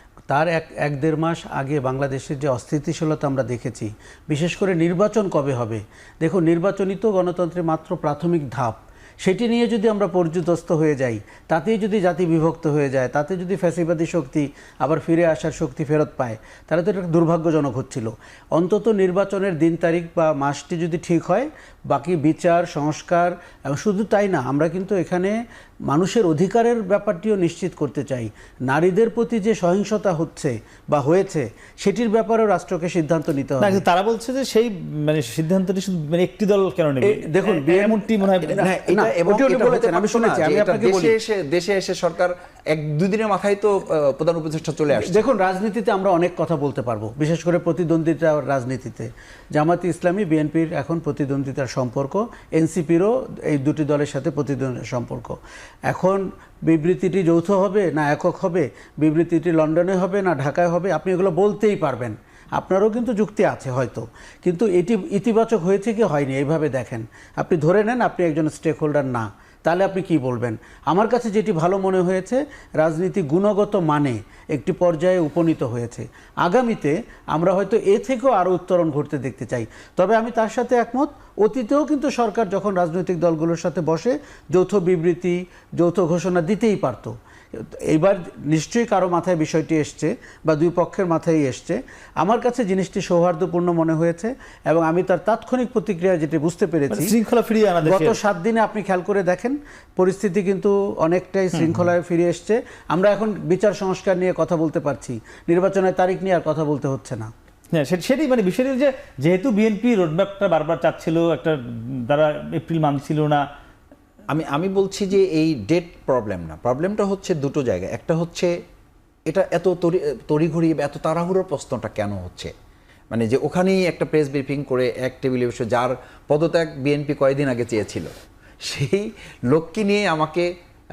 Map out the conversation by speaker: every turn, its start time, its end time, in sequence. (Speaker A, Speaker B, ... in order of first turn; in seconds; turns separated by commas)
Speaker A: 0.3-25.4, Speaker A: 25.9-33.8, Speaker B: 33.6-38.7, Speaker A: 37.0-41.1, Speaker C: 38.6-45.2, Speaker A: 44.9-55.4, Speaker A: 55.9-97.1, Speaker B: 96.9-98.2, Speaker A: 97.8-107.3, Speaker B: 101.5-101.9, Speaker B: 107.7-113.4, Speaker C: 114.3-118.5, Speaker C: 119.3-122.5, Speaker C: 123.1-128.1, Speaker C: 128.7-130.5